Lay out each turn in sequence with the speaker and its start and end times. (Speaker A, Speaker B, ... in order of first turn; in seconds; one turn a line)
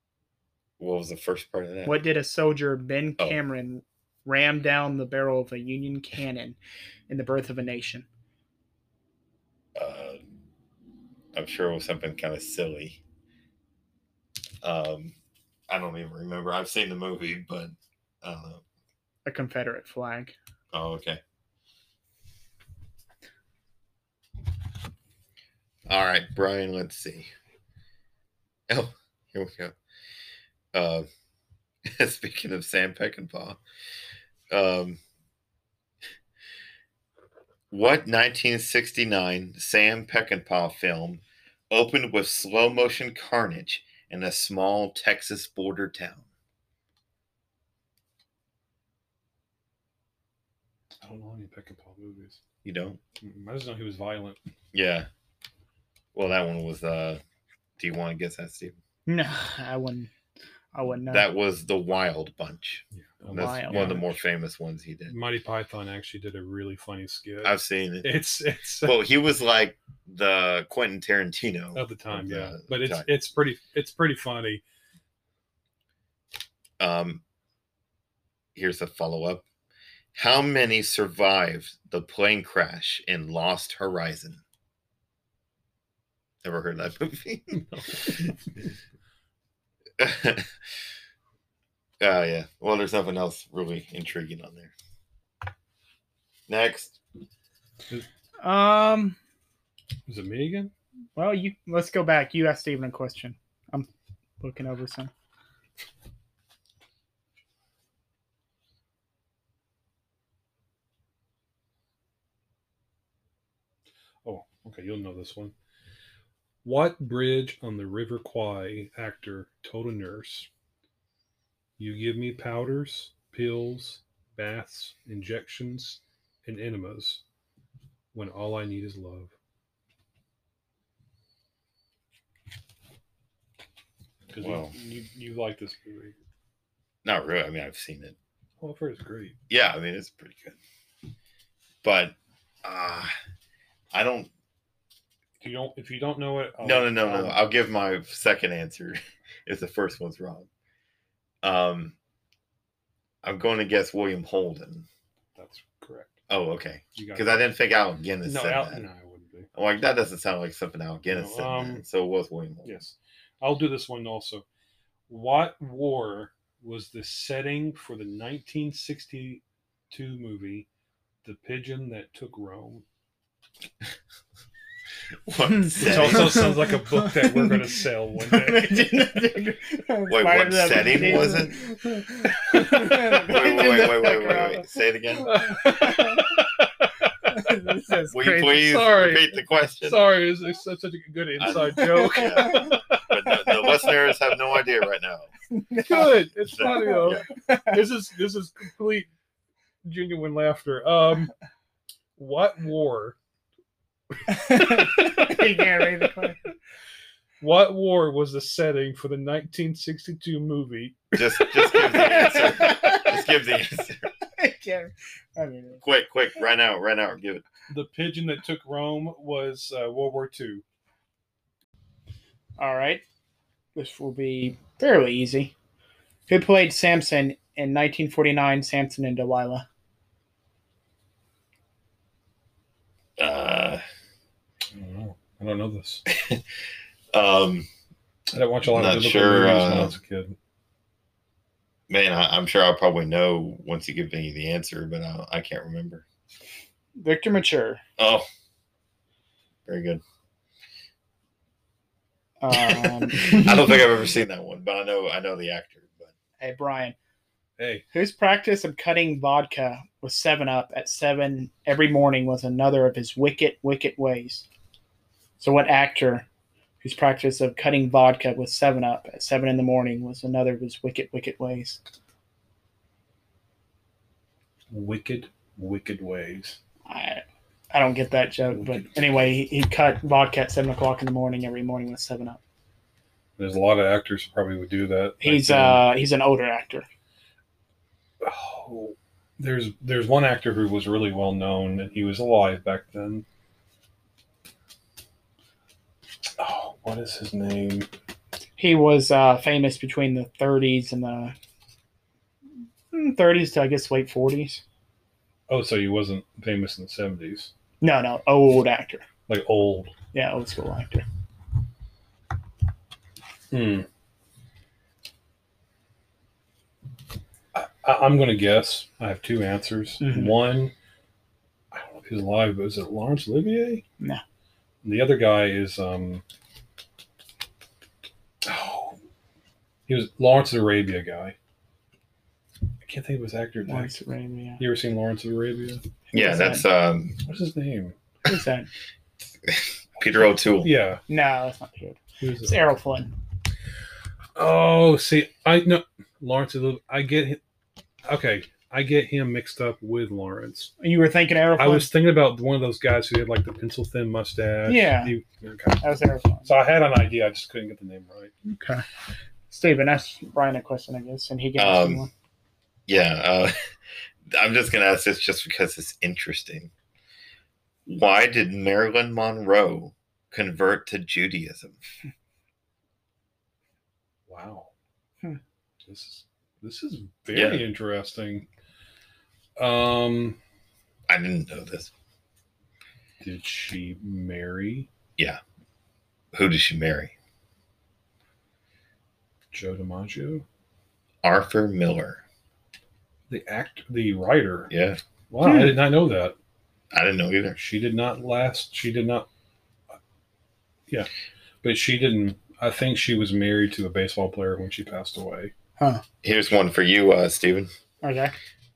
Speaker A: 0.8-2.0
Speaker B: 1.9-6.6
Speaker B: 7.1-8.1
Speaker A: 9.8-10.2
Speaker A: 11.3-13.0
Speaker A: 14.6-15.2
Speaker A: 15.7-18.6
Speaker B: 19.2-20.4
Speaker A: 20.7-21.2
Speaker A: 25.9-27.3
Speaker A: 28.7-29.8
Speaker A: 30.7-31.1
Speaker A: 31.9-33.6
Speaker A: 34.5-35.0
Speaker A: 37.7-46.2
Speaker C: 51.0-52.4
Speaker A: 52.6-53.0
Speaker C: 53.2-54.4
Speaker A: 54.7-55.1
Speaker A: 56.1-57.2
Speaker A: 57.8-58.8
Speaker B: 59.1-60.1
Speaker B: 60.7-61.3
Speaker A: 61.1-65.2
Speaker C: 62.9-64.2
Speaker B: 63.4-63.9
Speaker C: 65.1-69.0
Speaker A: 67.4-68.1
Speaker A: 68.8-73.1
Speaker C: 71.8-74.6
Speaker A: 76.8-77.2
Speaker A: 78.5-79.5
Speaker A: 80.2-84.4
Speaker A: 86.4-88.4
Speaker A: 90.0-90.5
Speaker A: 92.0-94.7
Speaker A: 96.5-97.0
Speaker B: 98.4-99.2
Speaker C: 100.1-100.7
Speaker B: 101.2-103.9
Speaker B: 104.4-105.1
Speaker C: 114.2-115.5
Speaker C: 116.6-120.5
Speaker C: 121.8-127.2
Speaker C: 128.1-129.3
Speaker C: 134.3-136.2
Speaker A: 134.4-134.7
Speaker A: 137.1-138.2
Speaker C: 138.6-139.4
Speaker A: 139.5-140.6
Speaker A: 141.8-143.1
Speaker A: 143.9-144.3
Speaker C: 145.4-147.4
Speaker A: 146.6-150.5
Speaker A: 151.4-151.9
Speaker A: 153.2-154.9
Speaker C: 155.3-156.2
Speaker A: 156.3-158.8
Speaker C: 157.0-157.5
Speaker C: 158.2-159.5
Speaker A: 159.5-162.8
Speaker C: 161.1-161.8
Speaker C: 162.7-164.4
Speaker C: 165.1-170.7
Speaker C: 171.2-172.8
Speaker A: 175.3-176.5
Speaker B: 175.5-184.6
Speaker C: 175.8-179.0
Speaker A: 180.1-181.7
Speaker C: 181.0-183.3
Speaker A: 182.5-185.6
Speaker C: 185.2-187.1
Speaker B: 185.5-186.4
Speaker B: 187.3-188.7
Speaker A: 188.1-190.1
Speaker C: 188.4-194.0
Speaker A: 191.4-195.3
Speaker B: 191.6-192.8
Speaker B: 195.5-197.8
Speaker C: 195.8-199.1
Speaker A: 196.5-197.3
Speaker C: 199.8-201.3
Speaker C: 202.2-203.2
Speaker B: 204.3-206.4
Speaker C: 204.3-205.8
Speaker C: 207.4-211.9
Speaker A: 211.2-214.1
Speaker B: 211.7-213.2
Speaker B: 214.4-215.8
Speaker A: 215.8-217.4
Speaker C: 217.7-220.6
Speaker B: 222.6-223.0
Speaker B: 223.8-225.5
Speaker B: 226.3-229.7
Speaker A: 233.2-233.8
Speaker C: 234.7-236.0
Speaker A: 236.1-236.4
Speaker A: 237.1-237.7
Speaker C: 238.3-240.4
Speaker A: 238.7-239.9
Speaker A: 241.9-246.1
Speaker B: 247.0-247.8
Speaker A: 248.0-248.3
Speaker A: 249.7-250.0
Speaker B: 252.4-253.8
Speaker A: 252.5-256.1
Speaker B: 256.4-256.9
Speaker C: 257.6-257.9
Speaker B: 257.9-264.5
Speaker B: 265.4-266.3
Speaker B: 266.8-271.8
Speaker C: 274.7-276.6
Speaker B: 276.9-282.4
Speaker C: 278.5-279.0
Speaker C: 283.4-285.8
Speaker B: 285.2-286.9
Speaker C: 288.2-293.2
Speaker C: 296.4-297.9
Speaker B: 298.6-301.4
Speaker B: 302.9-304.6
Speaker C: 305.5-307.5
Speaker B: 307.8-309.1
Speaker C: 309.3-309.9
Speaker B: 310.1-311.1
Speaker C: 313.5-313.9
Speaker C: 317.5-320.7
Speaker B: 320.0-320.3
Speaker C: 321.7-323.8
Speaker C: 324.8-326.2
Speaker C: 328.4-329.0
Speaker C: 329.9-331.4
Speaker C: 332.9-333.9
Speaker B: 333.7-334.6
Speaker C: 334.6-335.9
Speaker B: 336.1-336.6
Speaker A: 336.1-337.2
Speaker C: 337.2-338.0
Speaker B: 338.2-338.7
Speaker A: 339.4-340.7
Speaker C: 340.6-341.0
Speaker B: 341.1-343.1
Speaker C: 342.2-342.6
Speaker C: 344.4-347.4
Speaker C: 348.1-350.7
Speaker B: 350.8-351.9
Speaker C: 351.6-358.3
Speaker B: 354.7-355.1
Speaker B: 355.8-356.5
Speaker B: 358.5-358.9
Speaker B: 359.5-362.1
Speaker A: 361.6-362.1
Speaker A: 362.9-363.5
Speaker A: 364.3-366.7
Speaker A: 367.9-371.9
Speaker C: 374.3-374.7
Speaker C: 375.8-378.5
Speaker A: 377.3-377.6
Speaker C: 379.6-380.4
Speaker A: 381.1-381.9
Speaker C: 383.2-384.9
Speaker A: 386.3-387.1
Speaker C: 389.5-390.4
Speaker A: 391.2-392.2
Speaker C: 393.3-394.7
Speaker A: 394.7-395.0
Speaker C: 395.3-396.4
Speaker B: 395.4-395.8
Speaker A: 396.9-397.6
Speaker C: 397.6-399.3
Speaker C: 401.6-405.5
Speaker B: 405.8-406.0
Speaker A: 406.2-407.7
Speaker B: 408.0-408.3